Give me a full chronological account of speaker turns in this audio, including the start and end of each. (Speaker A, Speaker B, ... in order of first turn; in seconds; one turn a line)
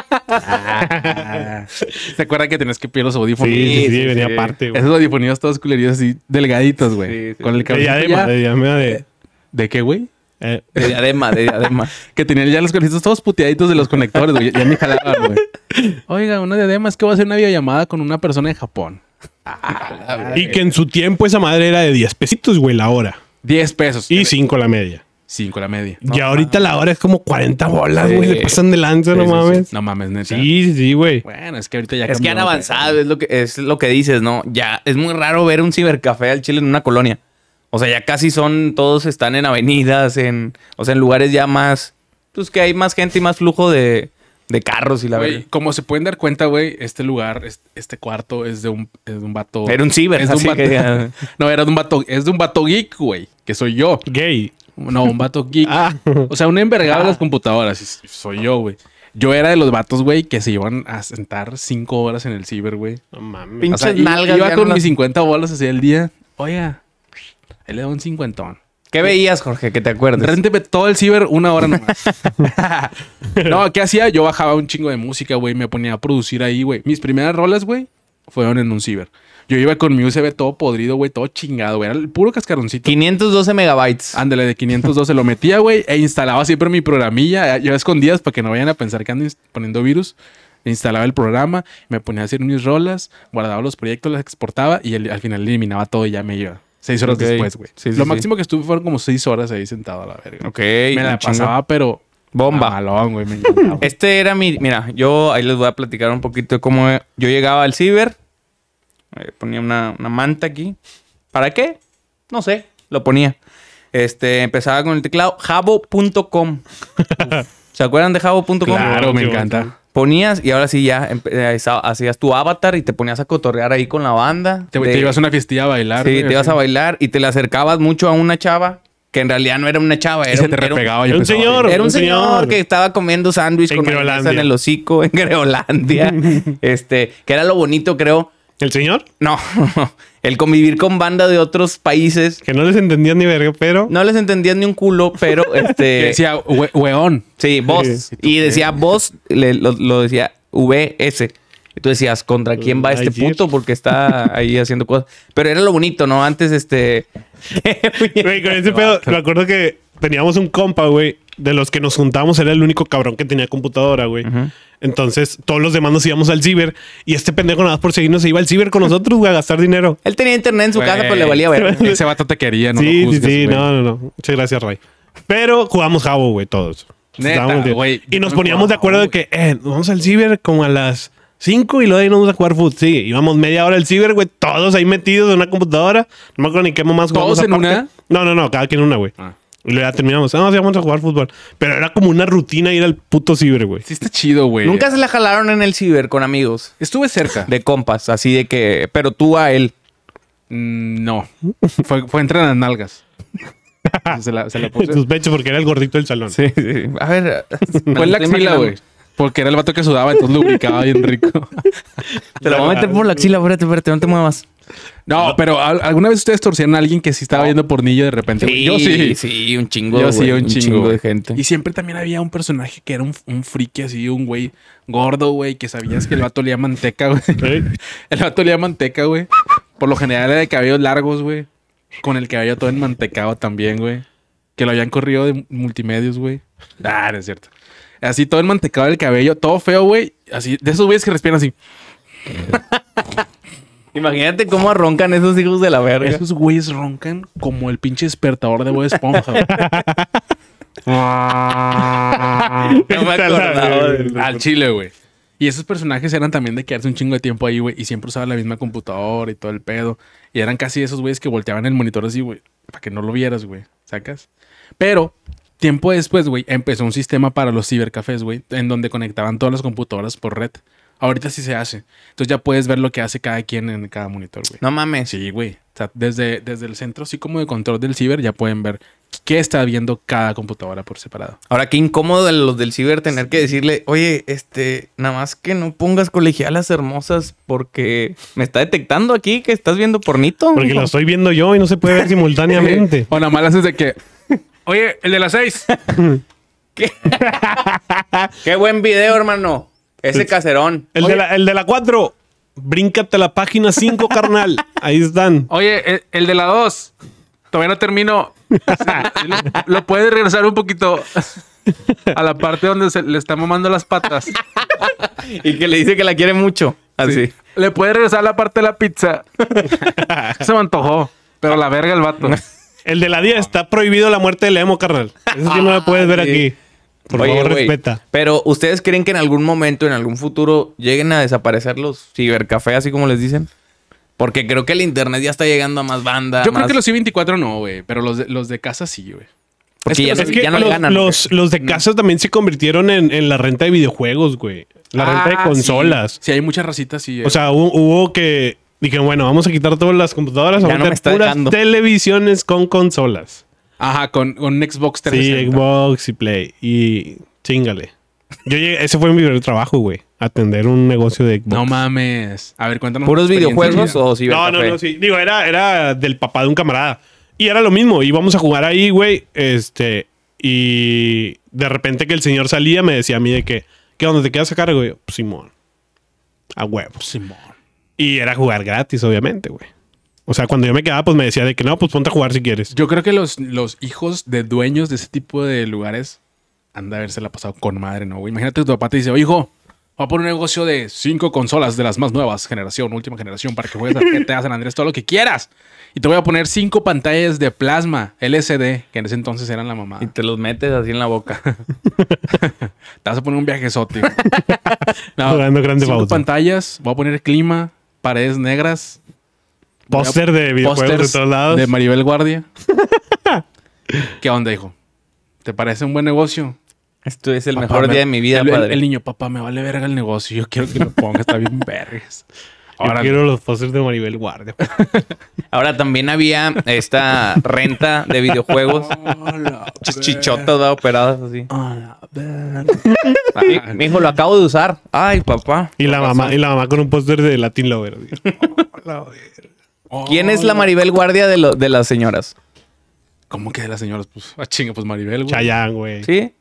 Speaker A: 0.1-0.8
Speaker B: 0.4-2.1
Speaker C: 0.8-4.1
Speaker B: 3.4-4.9
Speaker A: 3.5-4.6
Speaker C: 4.7-8.3
Speaker A: 7.0-7.7
Speaker B: 7.7-9.0
Speaker C: 9.5-10.1
Speaker B: 10.4-10.7
Speaker A: 10.8-11.9
Speaker C: 12.0-15.4
Speaker C: 16.1-20.6
Speaker A: 19.7-20.6
Speaker B: 20.3-23.2
Speaker C: 23.4-24.3
Speaker B: 24.1-25.0
Speaker C: 25.3-26.2
Speaker B: 26.0-29.7
Speaker A: 28.0-28.6
Speaker C: 29.1-30.5
Speaker B: 30.2-31.2
Speaker C: 31.2-33.0
Speaker A: 32.1-37.2
Speaker A: 37.7-45.4
Speaker C: 45.1-54.1
Speaker A: 49.7-51.1
Speaker B: 54.1-54.5
Speaker C: 54.8-63.0
Speaker B: 55.6-56.3
Speaker A: 56.9-57.2
Speaker B: 63.1-63.8
Speaker A: 63.6-64.9
Speaker C: 63.7-66.8
Speaker C: 67.7-69.1
Speaker A: 68.9-70.4
Speaker C: 70.2-83.0
Speaker B: 73.3-73.6
Speaker A: 82.9-84.2
Speaker C: 84.1-103.9
Speaker A: 97.0-98.2
Speaker A: 100.4-101.5
Speaker A: 102.3-102.8
Speaker A: 103.8-108.2
Speaker A: 109.1-110.8
Speaker A: 111.3-111.8
Speaker A: 112.3-113.4
Speaker A: 113.9-116.6
Speaker B: 117.0-117.4
Speaker A: 117.7-119.1
Speaker C: 118.7-119.7
Speaker B: 118.7-119.7
Speaker A: 119.9-125.2
Speaker C: 124.7-126.6
Speaker A: 126.0-130.9
Speaker C: 130.3-131.9
Speaker B: 131.1-132.6
Speaker A: 131.6-138.3
Speaker B: 133.7-134.5
Speaker B: 136.0-136.6
Speaker B: 138.6-139.1
Speaker A: 139.2-142.4
Speaker B: 142.4-143.9
Speaker A: 143.9-146.2
Speaker C: 145.9-147.3
Speaker A: 147.4-159.0
Speaker B: 147.7-148.0
Speaker C: 148.1-148.7
Speaker B: 152.6-153.4
Speaker B: 158.2-164.3
Speaker A: 164.2-164.5
Speaker B: 164.8-170.0
Speaker A: 170.0-172.0
Speaker C: 170.8-173.7
Speaker B: 171.6-172.0
Speaker B: 172.8-189.1
Speaker C: 177.2-179.1
Speaker C: 187.1-187.9
Speaker B: 189.6-193.8
Speaker C: 193.8-194.9
Speaker A: 194.6-196.7
Speaker C: 196.8-197.5
Speaker A: 197.5-199.7
Speaker C: 200.5-201.3
Speaker C: 201.8-203.0
Speaker B: 203.8-206.4
Speaker C: 204.1-205.0
Speaker A: 206.3-208.8
Speaker C: 207.9-211.7
Speaker B: 212.4-213.2
Speaker A: 212.4-214.5
Speaker C: 212.4-212.9
Speaker C: 215.1-219.2
Speaker A: 218.4-221.4
Speaker C: 219.9-231.5
Speaker B: 227.4-227.7
Speaker C: 232.0-234.0
Speaker C: 234.6-237.5
Speaker C: 238.0-241.5
Speaker A: 243.9-246.2
Speaker C: 246.0-249.5
Speaker B: 249.4-250.2
Speaker C: 250.9-252.7
Speaker B: 251.8-254.4
Speaker A: 252.7-254.3
Speaker C: 254.2-264.3
Speaker C: 264.8-281.4
Speaker A: 274.6-275.1
Speaker A: 281.5-290.9
Speaker B: 290.6-293.1
Speaker C: 292.5-294.0
Speaker C: 294.7-295.7
Speaker A: 296.8-297.7
Speaker B: 297.2-298.3
Speaker A: 298.4-300.9
Speaker B: 300.9-305.5
Speaker C: 305.5-306.9
Speaker C: 307.5-311.4
Speaker B: 308.7-309.1
Speaker C: 312.1-314.4
Speaker A: 314.6-317.3
Speaker C: 317.1-322.4
Speaker A: 319.5-319.9
Speaker B: 322.9-326.6
Speaker A: 325.3-326.5
Speaker B: 327.1-328.0
Speaker A: 327.1-333.5
Speaker A: 334.2-336.8
Speaker C: 336.4-339.3
Speaker C: 339.9-340.9
Speaker A: 339.9-341.3
Speaker B: 340.1-346.2
Speaker C: 345.0-347.5
Speaker A: 345.0-345.6
Speaker B: 347.2-353.4
Speaker A: 350.6-351.6
Speaker C: 353.8-355.6
Speaker B: 355.1-357.9
Speaker B: 358.4-361.8
Speaker C: 361.5-364.0
Speaker A: 363.1-364.8
Speaker B: 363.6-375.5
Speaker B: 376.6-377.1
Speaker C: 377.0-377.5
Speaker B: 378.0-379.7
Speaker B: 380.3-382.7
Speaker C: 382.7-386.2
Speaker C: 386.8-400.1
Speaker A: 400.0-401.4
Speaker C: 402.3-404.3
Speaker B: 404.3-406.2
Speaker C: 405.2-409.0
Speaker C: 409.9-412.5
Speaker B: 409.9-411.7
Speaker B: 412.7-414.1
Speaker C: 414.2-414.7
Speaker C: 415.4-416.6
Speaker A: 417.1-418.8
Speaker C: 417.6-422.2
Speaker C: 422.8-423.2
Speaker B: 422.8-424.6
Speaker C: 424.6-425.1
Speaker A: 425.5-429.0
Speaker C: 428.5-430.5
Speaker A: 429.8-431.5
Speaker C: 431.5-433.8
Speaker A: 433.4-435.8
Speaker B: 435.8-439.4
Speaker C: 435.8-436.4
Speaker A: 438.2-438.5
Speaker C: 439.9-440.7
Speaker A: 440.1-442.3
Speaker C: 443.3-445.5
Speaker B: 445.3-446.1
Speaker A: 446.0-446.3